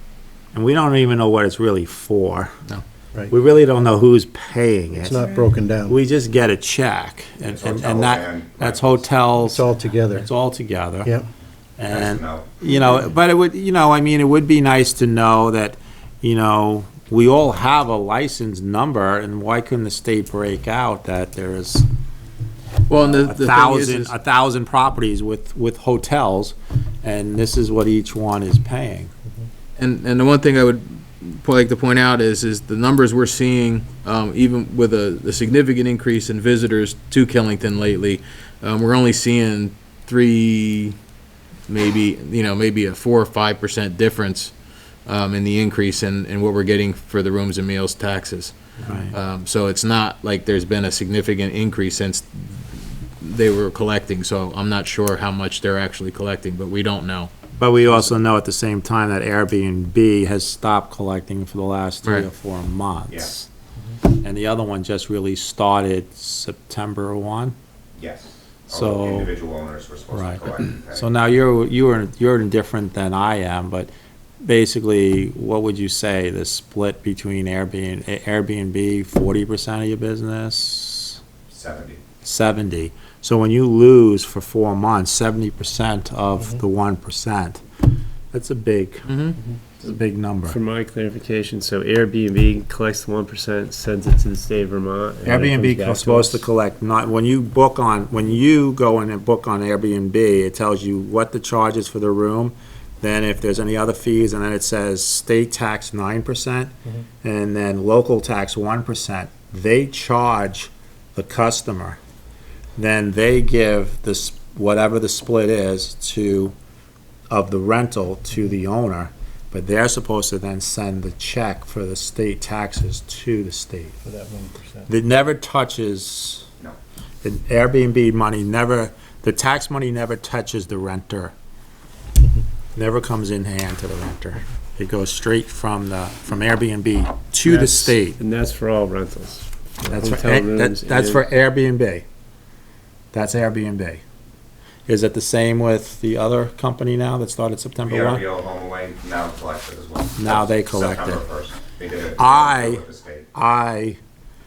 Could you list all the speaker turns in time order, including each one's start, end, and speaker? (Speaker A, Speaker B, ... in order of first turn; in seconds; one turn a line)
Speaker A: 0.5-2.6
Speaker A: 3.3-5.2
Speaker B: 4.9-6.0
Speaker A: 5.8-11.1
Speaker C: 7.5-9.1
Speaker B: 9.4-10.3
Speaker A: 11.8-21.9
Speaker C: 11.8-12.6
Speaker D: 22.9-24.1
Speaker A: 22.9-29.1
Speaker D: 29.8-41.0
Speaker D: 41.7-44.5
Speaker D: 45.0-48.5
Speaker A: 48.8-49.1
Speaker D: 49.1-58.1
Speaker A: 57.6-63.5
Speaker A: 64.0-67.5
Speaker C: 68.0-71.0
Speaker A: 68.7-69.3
Speaker A: 70.1-81.2
Speaker C: 81.5-82.0
Speaker A: 82.2-87.6
Speaker A: 88.3-89.1
Speaker D: 89.0-89.4
Speaker A: 89.8-90.6
Speaker E: 90.5-96.4
Speaker A: 95.2-112.0
Speaker A: 112.8-116.5
Speaker A: 117.3-124.0
Speaker B: 124.0-124.9
Speaker A: 124.9-126.5
Speaker A: 127.2-131.3
Speaker A: 132.8-138.2
Speaker E: 137.4-141.2
Speaker A: 139.9-142.0
Speaker A: 143.1-144.0
Speaker A: 144.9-148.2
Speaker C: 147.8-153.3
Speaker A: 150.2-151.2
Speaker A: 152.2-154.0